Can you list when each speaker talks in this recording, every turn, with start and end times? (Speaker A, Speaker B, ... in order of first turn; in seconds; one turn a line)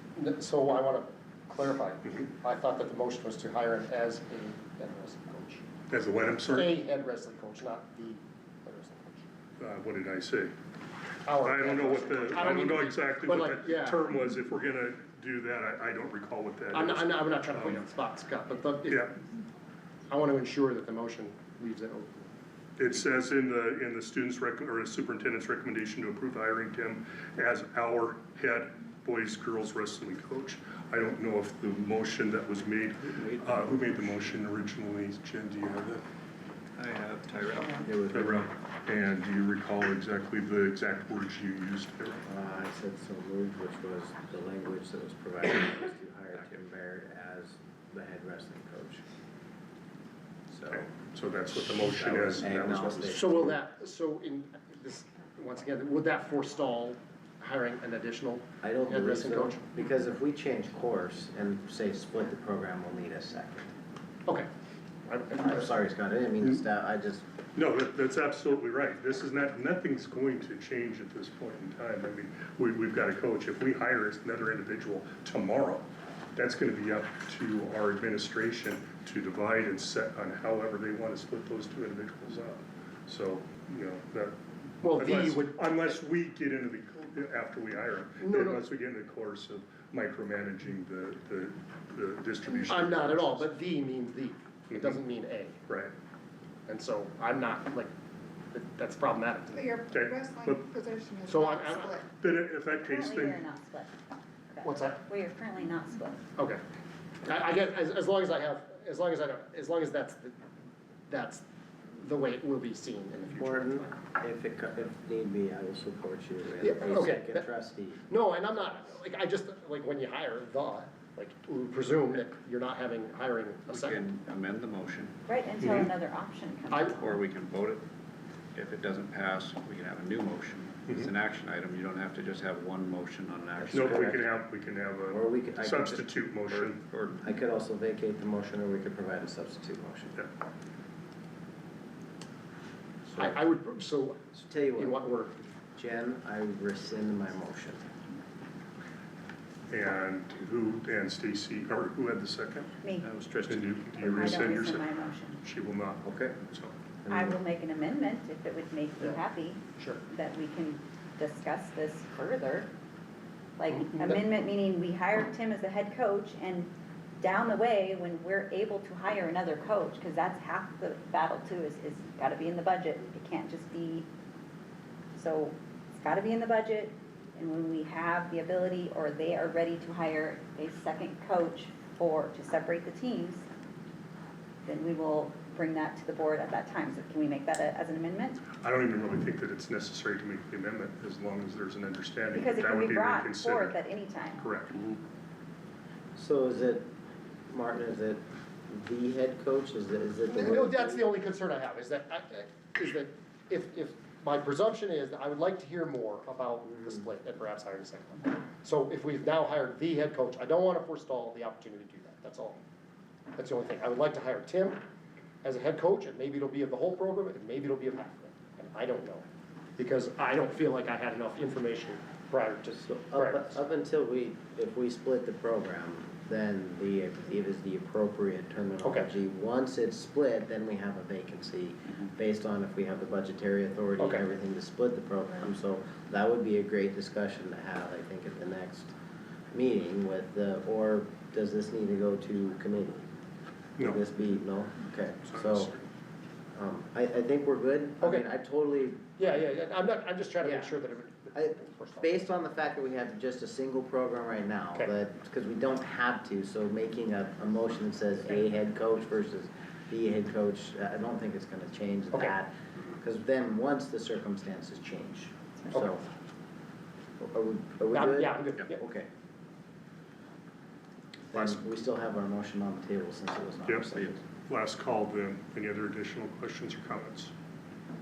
Speaker A: 0.1-5.7
Speaker B: 5.9-6.8
Speaker A: 6.5-9.2
Speaker B: 9.6-10.5
Speaker A: 11.2-14.0
Speaker B: 11.3-17.8
Speaker A: 16.7-19.1
Speaker A: 20.1-22.3
Speaker B: 22.8-36.0
Speaker C: 33.0-34.4
Speaker C: 36.8-37.9
Speaker D: 37.8-38.5
Speaker B: 38.1-42.2
Speaker D: 42.2-49.0
Speaker D: 50.5-50.9
Speaker B: 50.7-53.3
Speaker D: 51.8-53.6
Speaker A: 53.0-59.6
Speaker D: 58.6-63.7
Speaker A: 65.0-65.7
Speaker D: 65.4-67.2
Speaker B: 67.5-93.5
Speaker A: 84.8-86.0
Speaker A: 88.2-88.6
Speaker A: 92.5-95.6
Speaker B: 94.7-95.0
Speaker B: 95.7-95.9
Speaker A: 96.7-97.9
Speaker A: 98.5-99.7
Speaker E: 99.5-102.0
Speaker B: 99.9-100.7
Speaker A: 101.2-102.0
Speaker B: 102.2-103.4
Speaker F: 102.8-103.9
Speaker F: 104.5-106.2
Speaker A: 104.6-105.0
Speaker A: 106.3-106.6
Speaker A: 107.2-110.4
Speaker A: 111.1-114.0
Speaker D: 113.3-118.0
Speaker A: 116.6-117.5
Speaker A: 118.0-124.0
Speaker C: 123.7-125.2
Speaker F: 125.3-127.1
Speaker B: 125.6-125.9
Speaker A: 126.7-127.0
Speaker C: 127.0-127.8
Speaker C: 128.5-134.2
Speaker D: 133.6-134.2
Speaker B: 133.7-136.8
Speaker D: 135.1-136.1
Speaker C: 136.4-137.2
Speaker D: 137.2-140.2
Speaker D: 143.1-143.4
Speaker A: 143.2-144.2
Speaker D: 144.3-145.0
Speaker A: 144.8-145.4
Speaker D: 145.8-147.8
Speaker B: 149.7-152.7
Speaker F: 152.8-153.1
Speaker C: 153.0-153.9
Speaker B: 153.4-156.7
Speaker F: 153.9-155.4
Speaker D: 156.0-156.4
Speaker D: 157.0-157.4
Speaker F: 157.1-162.7
Speaker A: 159.7-160.0
Speaker F: 163.6-174.1
Speaker F: 175.2-183.4
Speaker F: 184.7-188.5
Speaker B: 188.6-193.8
Speaker F: 192.3-194.5
Speaker B: 194.4-194.8
Speaker D: 196.2-196.9
Speaker D: 197.5-201.0
Speaker A: 200.3-212.6
Speaker D: 206.7-207.1
Speaker A: 213.3-214.8
Speaker A: 215.4-219.2
Speaker A: 219.8-223.6
Speaker D: 222.8-238.9
Speaker A: 228.8-229.1
Speaker A: 234.0-234.2
Speaker D: 239.5-243.1
Speaker D: 243.8-245.7
Speaker B: 245.2-245.8
Speaker D: 246.5-249.3
Speaker A: 249.2-252.2
Speaker D: 250.4-250.8
Speaker D: 251.3-266.0
Speaker D: 267.2-269.1
Speaker A: 267.9-268.8
Speaker D: 271.3-274.2
Speaker B: 273.6-273.9
Speaker B: 274.5-277.3